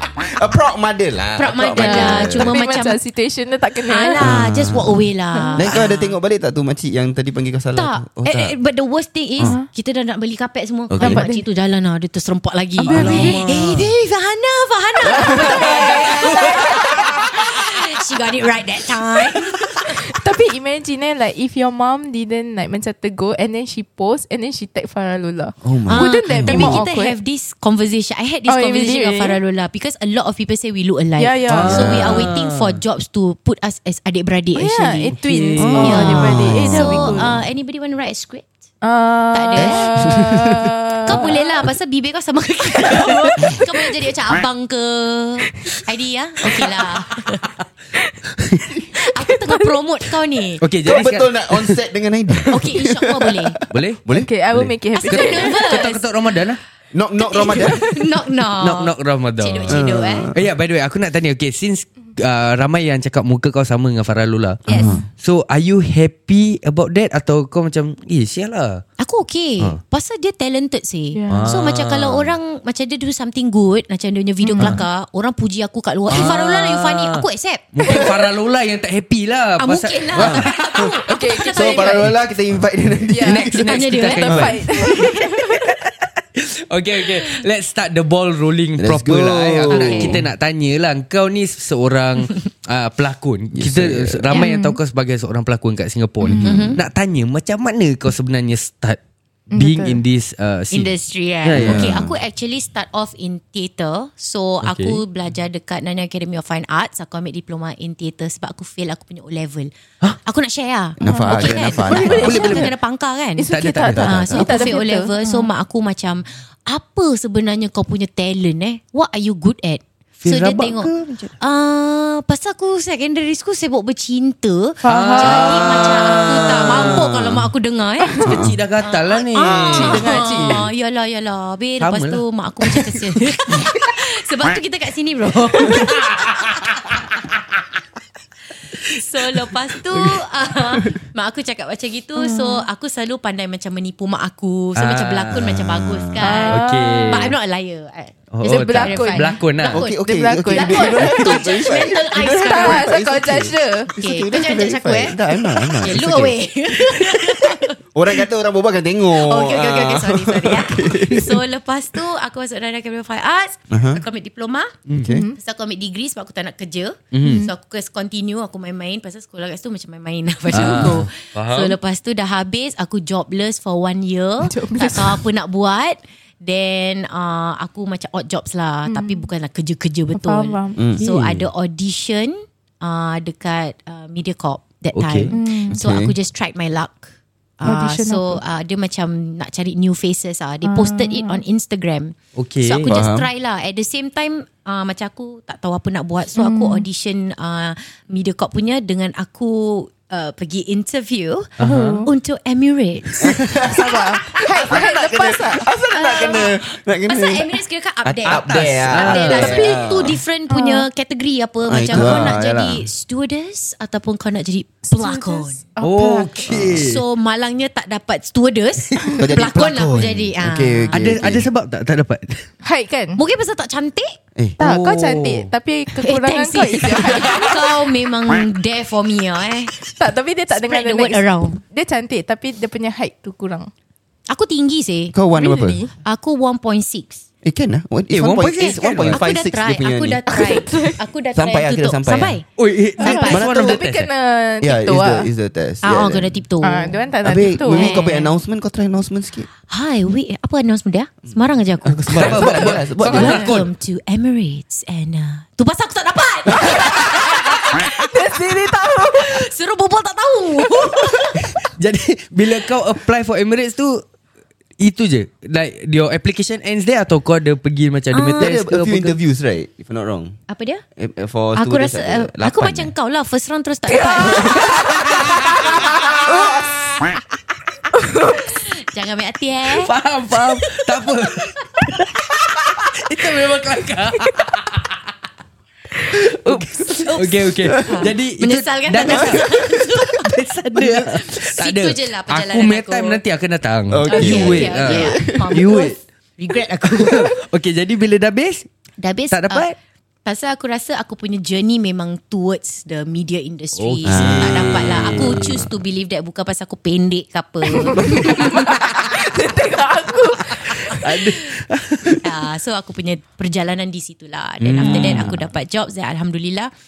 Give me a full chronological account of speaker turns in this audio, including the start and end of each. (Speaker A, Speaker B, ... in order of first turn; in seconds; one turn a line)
Speaker A: 0.2-2.6
Speaker B: 1.4-3.0
Speaker C: 1.8-4.2
Speaker B: 3.9-6.2
Speaker A: 4.2-8.6
Speaker B: 7.8-20.0
Speaker A: 10.9-11.2
Speaker C: 11.0-11.4
Speaker C: 12.8-13.5
Speaker D: 12.9-13.9
Speaker A: 12.9-13.4
Speaker C: 15.1-17.2
Speaker C: 19.8-27.1
Speaker A: 25.6-26.8
Speaker B: 25.9-35.1
Speaker C: 28.5-29.4
Speaker C: 31.2-31.9
Speaker D: 31.5-32.8
Speaker A: 31.6-32.3
Speaker C: 34.5-37.4
Speaker D: 35.2-36.4
Speaker A: 35.6-37.4
Speaker B: 35.8-38.5
Speaker C: 38.8-41.6
Speaker B: 39.3-40.2
Speaker A: 39.6-40.8
Speaker B: 41.0-47.5
Speaker C: 42.8-44.0
Speaker C: 48.7-49.8
Speaker B: 48.9-50.6
Speaker D: 50.6-51.8
Speaker A: 50.8-54.3
Speaker B: 52.5-53.5
Speaker D: 53.7-56.6
Speaker C: 54.1-55.8
Speaker B: 54.9-56.0
Speaker A: 56.9-57.9
Speaker B: 57.2-60.3
Speaker D: 58.6-68.8
Speaker A: 59.7-60.4
Speaker B: 64.7-65.0
Speaker A: 64.7-65.0
Speaker B: 69.0-78.0
Speaker C: 71.1-71.5
Speaker D: 71.3-72.3
Speaker C: 74.4-74.8
Speaker D: 76.1-80.7
Speaker A: 77.8-78.2
Speaker B: 79.6-82.2
Speaker A: 80.2-80.9
Speaker C: 81.0-82.1
Speaker A: 81.5-83.5
Speaker C: 83.1-85.6
Speaker D: 83.2-85.7
Speaker B: 83.4-84.6
Speaker A: 84.3-84.6
Speaker D: 86.4-99.0
Speaker A: 88.8-90.2
Speaker B: 89.7-90.2
Speaker A: 93.5-94.3
Speaker C: 94.3-94.8
Speaker A: 96.2-96.8
Speaker B: 96.4-96.8
Speaker C: 99.5-100.0
Speaker D: 99.5-102.0
Speaker B: 100.7-109.7
Speaker A: 101.5-102.2
Speaker D: 104.6-105.0
Speaker B: 110.2-113.5
Speaker A: 111.0-112.7
Speaker C: 111.0-112.7
Speaker D: 111.9-112.7
Speaker C: 113.4-115.5
Speaker D: 113.5-114.2
Speaker A: 113.9-114.8
Speaker B: 114.0-128.2
Speaker D: 120.2-121.3
Speaker C: 124.8-125.8
Speaker D: 124.8-127.0
Speaker A: 125.9-127.5
Speaker D: 128.2-130.6
Speaker A: 128.2-128.6
Speaker B: 128.8-136.6
Speaker A: 129.4-130.0
Speaker C: 129.7-130.7
Speaker D: 131.8-132.2
Speaker B: 138.7-152.9
Speaker C: 142.2-142.7
Speaker D: 144.8-145.5
Speaker A: 145.3-146.2
Speaker C: 146.2-147.3
Speaker D: 146.5-147.3
Speaker D: 148.3-149.8
Speaker C: 148.4-149.4
Speaker A: 149.6-161.4
Speaker C: 150.0-151.4
Speaker C: 152.4-153.9
Speaker B: 154.0-157.8
Speaker B: 159.2-164.8
Speaker A: 163.7-164.0
Speaker D: 164.9-165.2
Speaker A: 164.9-165.3
Speaker C: 165.0-165.4
Speaker B: 165.3-201.5
Speaker D: 167.1-167.5
Speaker C: 167.2-167.5
Speaker D: 170.5-171.8
Speaker C: 174.5-175.2
Speaker C: 178.9-179.3
Speaker C: 180.1-180.8
Speaker A: 180.8-181.0
Speaker D: 181.0-181.5
Speaker D: 185.0-185.3
Speaker C: 185.3-185.8
Speaker A: 185.7-186.1
Speaker C: 187.6-188.4
Speaker C: 190.7-191.4
Speaker D: 192.3-192.9
Speaker A: 192.9-193.3
Speaker C: 196.3-196.8
Speaker D: 201.6-202.1
Speaker C: 201.6-202.1
Speaker B: 202.1-203.8
Speaker A: 203.2-210.2
Speaker C: 203.8-205.7
Speaker B: 205.9-215.6
Speaker D: 208.3-209.8
Speaker C: 210.5-210.8
Speaker A: 211.7-212.8
Speaker D: 211.9-212.3
Speaker C: 214.9-216.5
Speaker D: 215.8-217.0
Speaker A: 216.5-216.9
Speaker B: 216.7-221.1
Speaker A: 219.2-221.5
Speaker D: 220.9-222.4
Speaker C: 222.6-223.2
Speaker B: 223.2-224.2
Speaker D: 224.6-225.5
Speaker C: 224.6-227.5
Speaker B: 226.0-229.7
Speaker C: 230.0-233.7
Speaker B: 230.5-231.6
Speaker B: 234.3-235.2
Speaker A: 235.1-235.9
Speaker C: 235.3-235.9
Speaker B: 236.0-237.2
Speaker A: 237.4-240.7
Speaker D: 238.1-239.2
Speaker B: 238.4-242.4
Speaker C: 240.7-240.9
Speaker A: 241.3-242.4
Speaker D: 242.6-244.1
Speaker B: 243.0-243.4
Speaker C: 243.0-245.3
Speaker A: 243.1-243.9
Speaker A: 244.6-246.4
Speaker B: 245.8-247.0
Speaker C: 246.6-248.1
Speaker A: 247.2-249.5
Speaker B: 247.7-248.3
Speaker B: 249.7-261.4
Speaker A: 251.8-253.5
Speaker D: 252.0-253.7
Speaker C: 252.3-253.5
Speaker C: 256.8-259.4
Speaker D: 261.3-264.0
Speaker D: 264.8-269.2
Speaker B: 268.1-268.5
Speaker A: 268.4-270.4
Speaker B: 270.5-270.8
Speaker A: 270.9-272.9
Speaker B: 271.6-274.9
Speaker C: 273.9-276.2
Speaker C: 278.0-278.4
Speaker B: 278.5-279.9
Speaker D: 279.8-284.9
Speaker C: 286.0-286.9
Speaker D: 286.2-296.0
Speaker B: 286.9-293.2
Speaker A: 289.1-289.7
Speaker A: 293.9-295.9
Speaker B: 294.1-297.3
Speaker D: 296.9-298.7
Speaker B: 299.0-299.7
Speaker D: 299.3-299.7
Speaker B: 300.2-308.7
Speaker D: 303.8-305.7
Speaker A: 304.1-305.7
Speaker C: 307.8-311.3
Speaker D: 310.6-312.3
Speaker B: 312.2-316.7
Speaker A: 314.6-315.4
Speaker D: 314.8-315.3